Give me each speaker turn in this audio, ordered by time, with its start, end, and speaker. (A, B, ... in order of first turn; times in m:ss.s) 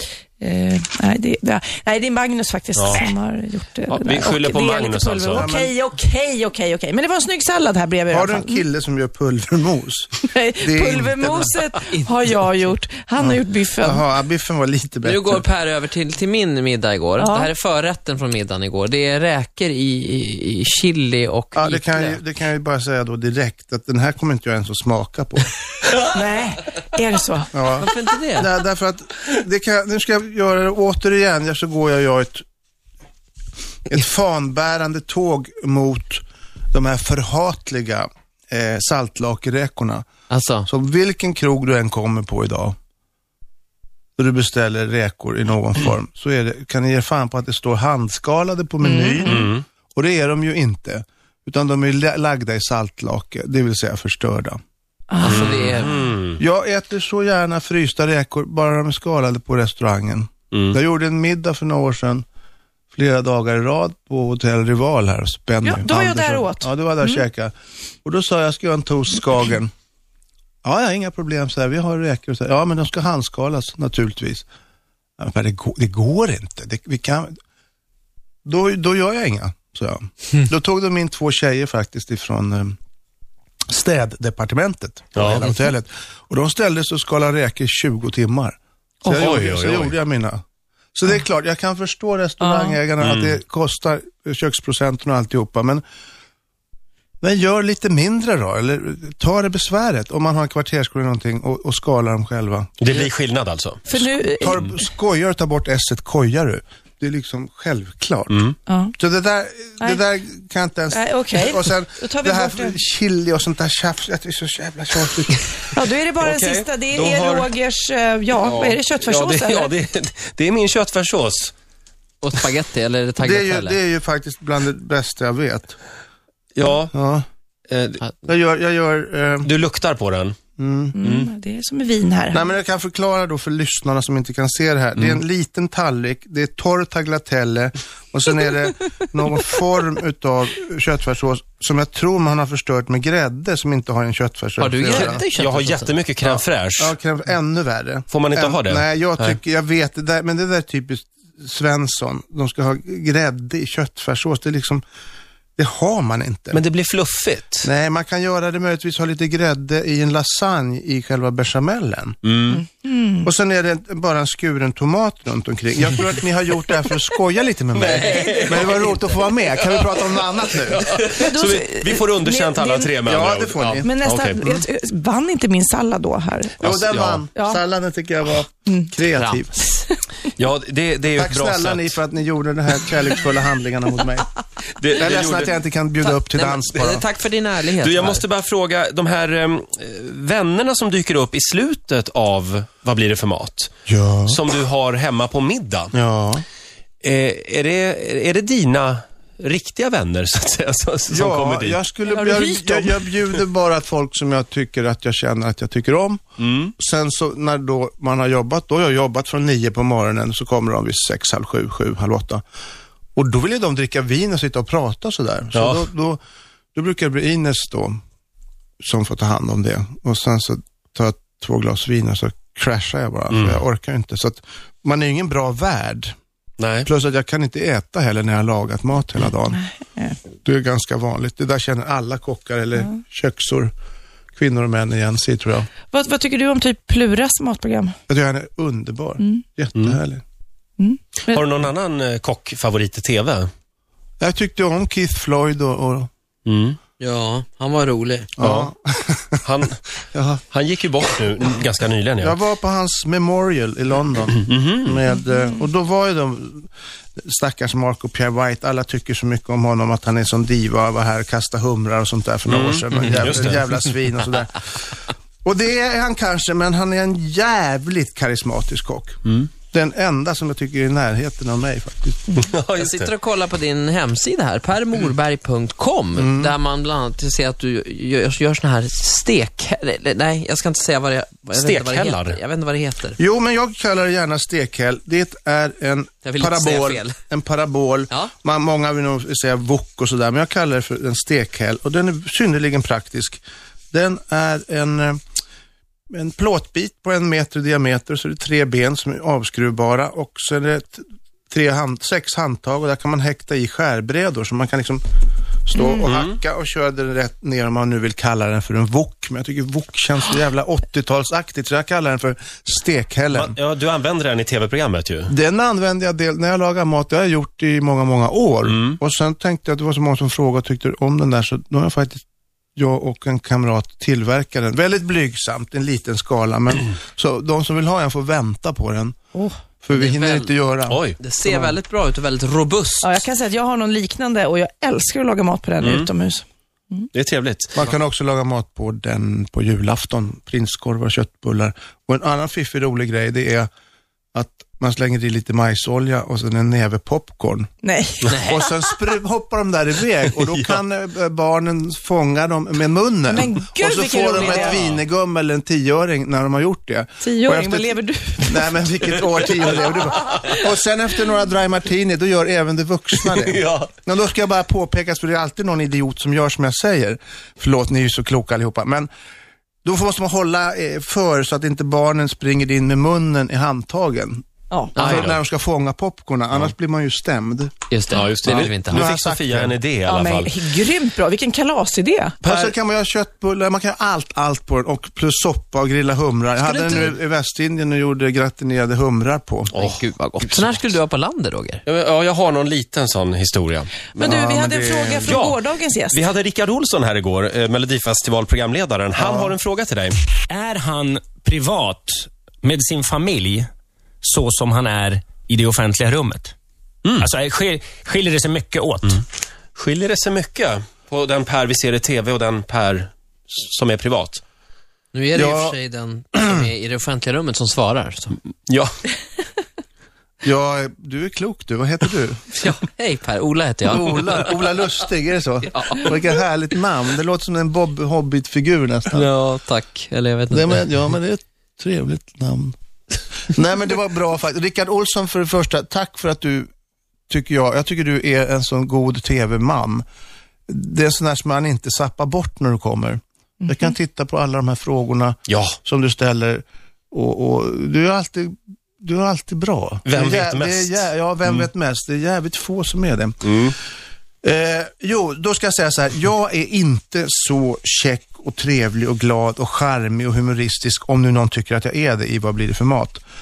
0:00.4-0:08.6 A
0:02.8-0:03.1 B
0:03.9-0:05.5 B
0:05.3-0:05.7 C
0:08.1-0:11.5 C
0:10.2-0:14.0 A
0:11.8-0:12.7 D
0:13.2-0:15.4 C
0:15.0-0:22.2 D
0:17.2-0:17.5 A
0:21.5-0:25.5 C
0:26.0-0:27.5 A
0:27.5-0:32.4 C
0:27.8-0:28.5 D
0:33.8-0:40.0 C
0:40.3-0:40.7 D
0:40.6-0:42.8 C
0:44.2-0:54.6 C
0:48.8-0:49.4 A
0:49.2-0:49.6 B
0:55.1-0:55.5 A
0:55.2-0:56.0 D
0:55.3-0:56.4 B
0:56.4-1:02.2 C
1:02.9-1:07.5 C
1:05.6-1:07.2 A
1:08.0-1:09.7 C
1:10.6-1:14.4 C
1:15.2-1:17.3 C
1:18.4-1:22.8 C
1:23.7-1:30.4 C
1:25.1-1:25.5 B
1:29.1-1:30.0 B
1:30.9-1:35.8 C
1:32.4-1:32.8 A
1:33.0-1:33.4 B
1:37.2-1:43.0 C
1:42.8-1:43.8 B
1:43.9-1:44.8 A
1:43.9-1:48.4 C
1:48.3-1:48.6 B
1:48.7-1:48.9 A
1:49.0-1:55.5 C
1:50.9-1:52.8 A
1:55.7-1:59.7 A
1:56.2-1:57.5 B
1:58.4-2:01.5 B
2:02.2-2:03.8 D
2:03.2-2:05.8 C
2:06.6-2:06.9 B
2:06.9-2:07.2 C
2:07.7-2:08.0 B
2:08.2-2:09.5 C
2:09.4-2:10.4 B
2:10.6-2:11.0 C
2:10.9-2:12.5 A
2:11.0-2:11.3 B
2:12.3-2:25.2 C
2:24.6-2:26.0 D
2:24.9-2:26.9 B
2:26.2-2:34.8 C
2:28.1-2:29.4 B
2:35.6-2:36.6 C
2:36.5-2:37.7 B
2:37.6-2:42.2 C
2:42.2-2:42.6 B
2:42.5-2:43.3 A
2:43.2-2:50.9 C
2:47.7-2:50.1 B
2:50.7-2:54.5 B
2:51.0-2:53.0 A
2:53.0-2:53.9 C
2:53.8-2:56.6 A
2:56.6-2:57.2 B
2:56.6-2:59.5 C
2:57.3-2:57.6 A
2:58.6-2:58.9 A
2:59.1-2:59.8 D
3:00.4-3:02.0 B
3:01.1-3:04.3 C
3:04.8-3:05.5 B
3:05.0-3:07.0 C
3:06.0-3:08.2 D
3:07.8-3:13.7 B
3:13.9-3:14.4 C
3:14.3-3:15.9 B
3:15.9-3:16.4 C
3:17.0-3:21.8 B
3:21.1-3:26.2 C
3:22.1-3:23.0 A
3:26.4-3:26.7 B
3:26.8-3:32.4 C
3:33.1-3:36.2 C
3:35.5-3:35.9 B
3:36.7-3:38.0 C
3:38.8-3:46.1 C
3:43.3-3:43.6 B
3:46.6-3:46.9 B
3:46.8-3:49.6 C
3:49.5-3:50.2 A
3:50.4-3:53.7 C
3:54.3-3:55.7 C
3:55.9-3:58.0 A
3:58.1-4:00.2 C
4:00.8-4:01.4 A
4:01.3-4:03.5 B
4:04.2-4:06.1 C
4:06.4-4:06.8 B
4:07.0-4:08.3 D
4:08.4-4:09.4 C
4:08.4-4:08.7 B
4:09.4-4:10.0 B
4:10.1-4:10.4 C
4:10.5-4:12.4 B
4:12.2-4:24.6 C
4:14.3-4:15.0 B
4:22.5-4:23.7 B
4:25.4-4:32.3 C
4:29.2-4:29.5 B
4:32.3-4:33.1 B
4:32.8-4:43.2 D
4:36.1-4:36.5 C
4:41.6-4:42.4 B
4:43.2-4:55.2 C
4:46.2-4:47.2 D
4:56.1-5:05.0 C
5:05.6-5:13.6 C
5:05.8-5:06.1 A
5:06.0-5:06.4 B
5:13.3-5:15.3 B
5:15.3-5:22.2 C
5:18.6-5:19.0 B
5:22.8-5:29.2 C
5:29.3-5:29.6 A
5:29.8-5:31.8 C
5:29.9-5:30.5 D
5:30.9-5:31.2 B
5:31.2-5:33.2 D
5:33.0-5:37.1 A
5:35.8-5:36.1 B
5:37.1-5:37.8 B
5:37.7-5:43.7 C
5:44.3-5:47.7 C
5:47.8-5:48.4 A
5:48.3-5:48.7 D
5:48.3-6:09.1 C
5:53.3-5:54.8 A
5:54.3-5:55.0 B
5:57.2-5:58.7 A
5:59.2-5:59.5 B
6:00.3-6:00.6 A
6:03.2-6:03.9 B
6:09.8-6:14.4 C
6:15.0-6:15.3 D
6:15.0-6:17.8 C
6:15.0-6:15.4 B
6:17.9-6:19.1 D
6:18.1-6:20.5 B
6:18.5-6:19.8 C
6:20.0-6:22.7 A
6:22.4-6:29.7 C
6:26.7-6:27.2 A
6:29.7-6:31.8 D
6:29.7-6:30.8 B
6:31.8-6:34.4 B
6:34.2-6:35.4 C
6:34.2-6:36.2 A
6:35.2-6:40.2 B
6:39.2-6:39.5 C
6:40.5-6:43.7 E
6:44.2-6:46.5 E
6:47.2-6:49.2 E
6:49.7-6:54.4 B
6:55.1-6:58.4 D
6:55.3-6:55.8 C
6:58.7-6:58.9 B
7:00.4-7:02.4 C
7:02.5-7:04.5 D
7:03.8-7:09.3 C
7:05.7-7:06.2 D
7:09.1-7:10.9 D
7:10.5-7:12.8 C
7:13.5-7:16.7 C
7:17.3-7:20.0 C
7:20.7-7:33.4 C
7:23.6-7:23.9 A
7:25.5-7:25.8 B
7:30.0-7:31.7 B
7:33.4-7:33.8 B
7:34.4-7:43.2 C